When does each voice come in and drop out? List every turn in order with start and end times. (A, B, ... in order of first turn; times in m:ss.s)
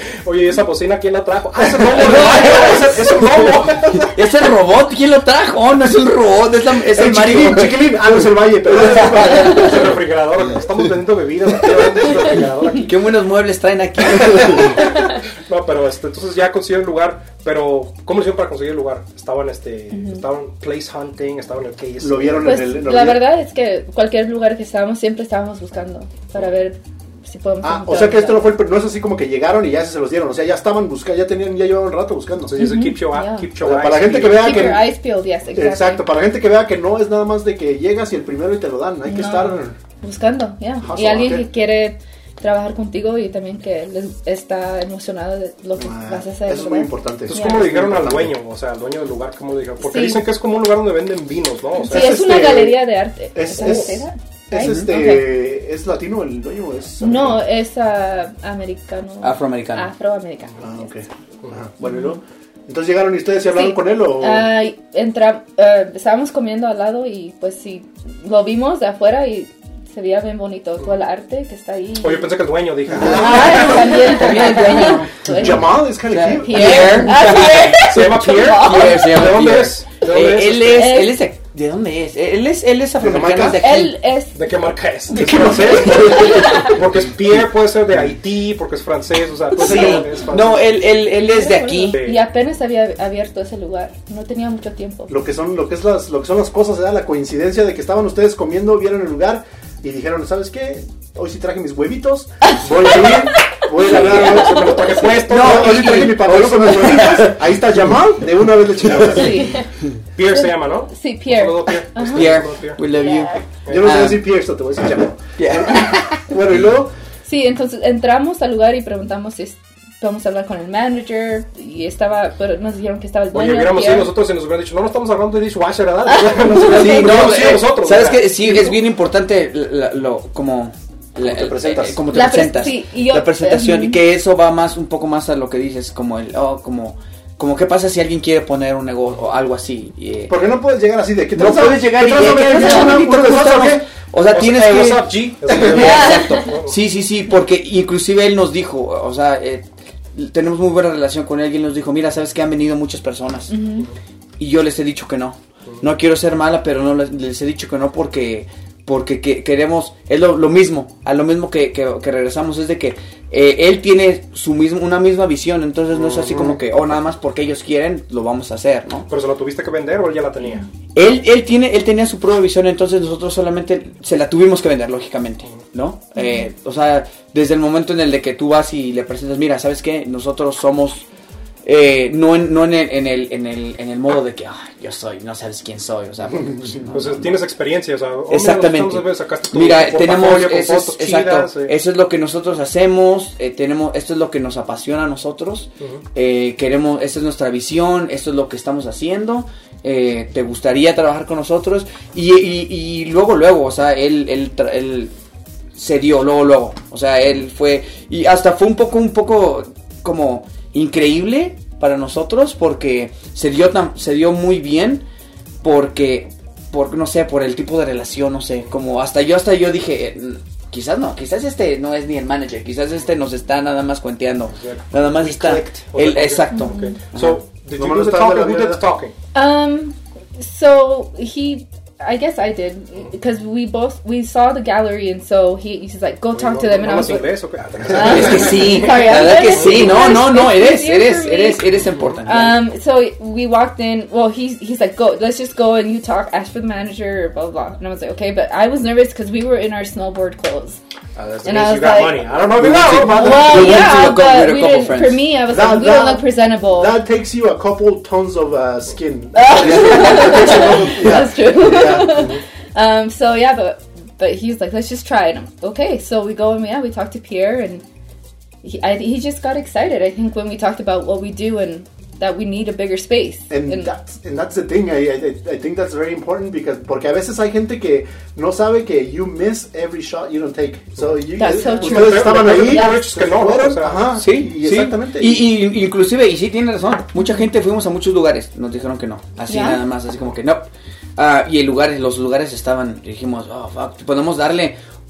0:00.2-0:04.1 A
0:02.0-0:02.9 B
0:02.1-0:02.8 C
0:04.0-0:08.2 B
0:06.9-0:10.0 C
0:08.6-0:13.0 A
0:08.7-0:09.6 B
0:12.8-0:15.0 B
0:14.3-0:22.6 A
0:19.9-0:20.2 D
0:22.0-0:23.2 C
0:22.4-0:28.5 D
0:27.6-0:32.6 C
0:32.5-0:34.7 A
0:32.6-0:33.5 D
0:33.6-0:34.9 C
0:34.2-0:36.1 D
0:35.5-0:39.8 C
0:39.0-0:47.7 D
0:40.8-0:41.4 C
0:45.8-0:48.4 C
0:47.3-0:52.2 A
0:49.8-0:50.2 D
0:51.8-0:55.4 D
0:51.9-0:52.8 C
0:53.3-0:57.4 C
0:57.0-1:00.9 D
0:59.2-0:59.9 B
1:00.6-1:04.5 C
1:03.5-1:12.3 D
1:12.0-1:14.2 A
1:13.0-1:15.7 D
1:13.0-1:13.9 C
1:13.4-1:24.0 B
1:15.3-1:17.4 C
1:16.4-1:19.1 D
1:17.0-1:21.0 A
1:20.7-1:21.2 D
1:23.0-1:23.6 C
1:23.6-1:24.4 D
1:24.3-1:30.8 A
1:25.1-1:26.8 B
1:25.3-1:26.7 D
1:29.6-1:32.0 B
1:31.1-1:35.1 D
1:31.9-1:32.2 A
1:35.1-1:49.6 C
1:42.8-1:46.7 A
1:43.9-1:44.4 B
1:45.2-1:47.4 B
1:49.0-1:49.6 D
1:50.1-1:52.8 A
1:50.3-1:53.4 D
1:52.1-1:54.3 B
1:53.6-1:53.9 A
1:53.7-1:56.9 C
1:55.4-1:55.9 B
1:57.3-2:04.1 D
2:03.3-2:08.7 A
2:06.1-2:07.4 D
2:06.6-2:20.4 B
2:11.2-2:12.0 C
2:12.1-2:14.0 D
2:20.3-2:23.8 C
2:21.3-2:33.5 B
2:22.0-2:23.7 A
2:24.3-2:26.8 A
2:25.7-2:26.5 D
2:33.5-2:33.9 D
2:34.4-2:49.1 B
2:45.9-2:46.6 A
2:49.1-2:50.7 A
2:51.0-3:01.1 B
3:01.6-3:07.3 B
3:06.9-3:11.7 A
3:08.3-3:25.1 B
3:25.7-3:35.0 B
3:35.6-3:47.4 B
3:44.5-3:49.1 A
3:46.6-3:47.0 D
3:47.7-3:48.8 C
3:49.3-3:57.4 D
3:56.3-4:00.3 A
3:57.9-4:01.6 D
3:57.9-4:02.6 B
4:01.8-4:02.2 A
4:02.2-4:10.8 D
4:11.2-4:13.9 A
4:11.4-4:17.0 D
4:12.6-4:15.2 B
4:15.4-4:22.4 C
4:19.3-4:27.8 D
4:19.7-4:20.2 B
4:22.1-4:22.4 A
4:28.6-4:33.9 D
4:33.5-4:45.6 C
4:41.4-4:43.0 D
4:41.7-4:44.2 A
4:44.1-4:54.8 B
4:49.5-4:49.8 D